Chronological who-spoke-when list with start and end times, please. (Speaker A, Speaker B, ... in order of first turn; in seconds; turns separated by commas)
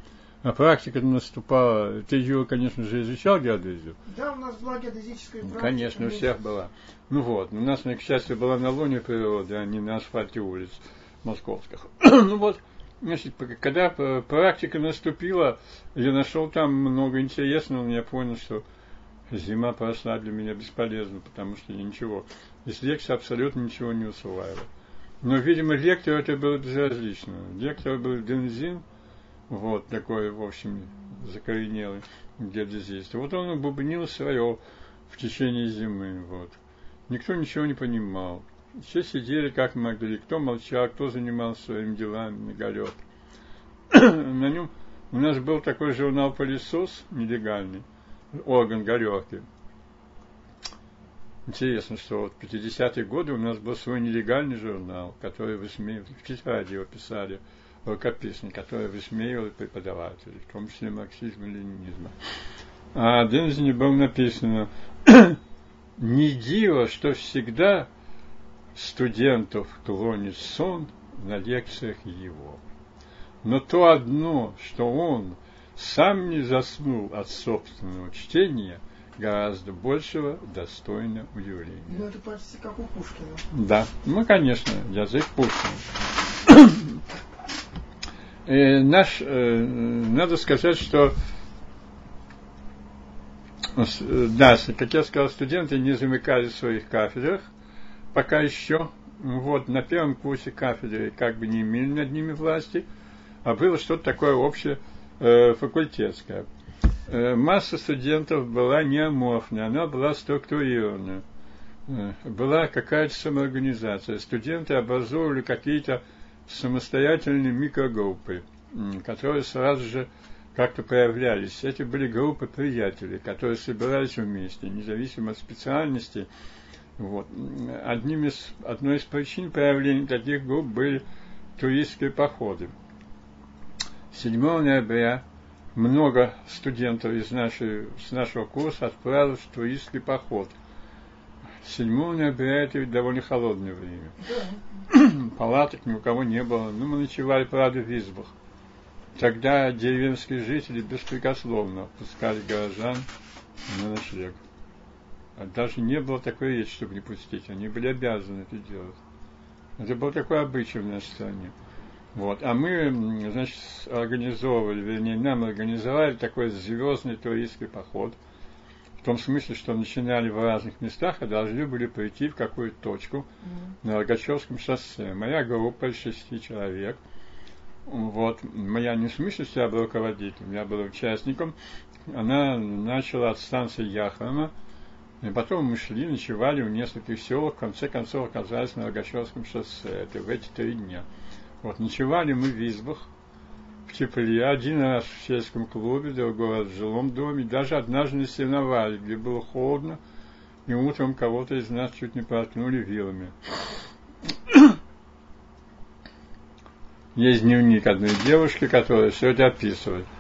Speaker A: 0.4-4.0, Speaker B: 4.1-6.3, Speaker A: 5.4-18.6, Speaker A: 19.3-24.7, Speaker A: 25.2-28.8, Speaker A: 29.5-43.0, Speaker A: 43.9-49.5, Speaker A: 51.5-62.2, Speaker A: 63.0-65.4, Speaker A: 66.0-67.9, Speaker A: 68.8-72.6, Speaker A: 73.4-82.1, Speaker B: 81.9-83.5, Speaker A: 83.5-85.9, Speaker A: 86.5-87.0, Speaker A: 88.5-91.2, Speaker A: 93.8-97.5, Speaker A: 98.1-102.9, Speaker A: 103.4-106.5, Speaker A: 107.1-111.2, Speaker A: 111.9-126.3, Speaker A: 127.0-131.0, Speaker A: 131.6-132.7, Speaker A: 134.1-135.2, Speaker A: 135.8-140.5, Speaker A: 141.6-144.2, Speaker B: 144.2-144.6, Speaker A: 144.9-148.3, Speaker A: 149.2-153.1, Speaker A: 153.7-154.4, Speaker A: 155.4-159.0, Speaker A: 159.8-161.5, Speaker A: 162.2-168.2, Speaker A: 169.0-173.3, Speaker B: 173.4-173.8, Speaker A: 173.8-177.0, Speaker A: 177.9-181.6, Speaker A: 182.1-184.5, Speaker A: 185.2-191.1, Speaker A: 191.6-193.1, Speaker A: 193.9-200.0, Speaker A: 200.7-203.4, Speaker A: 204.5-204.8, Speaker A: 207.2-210.1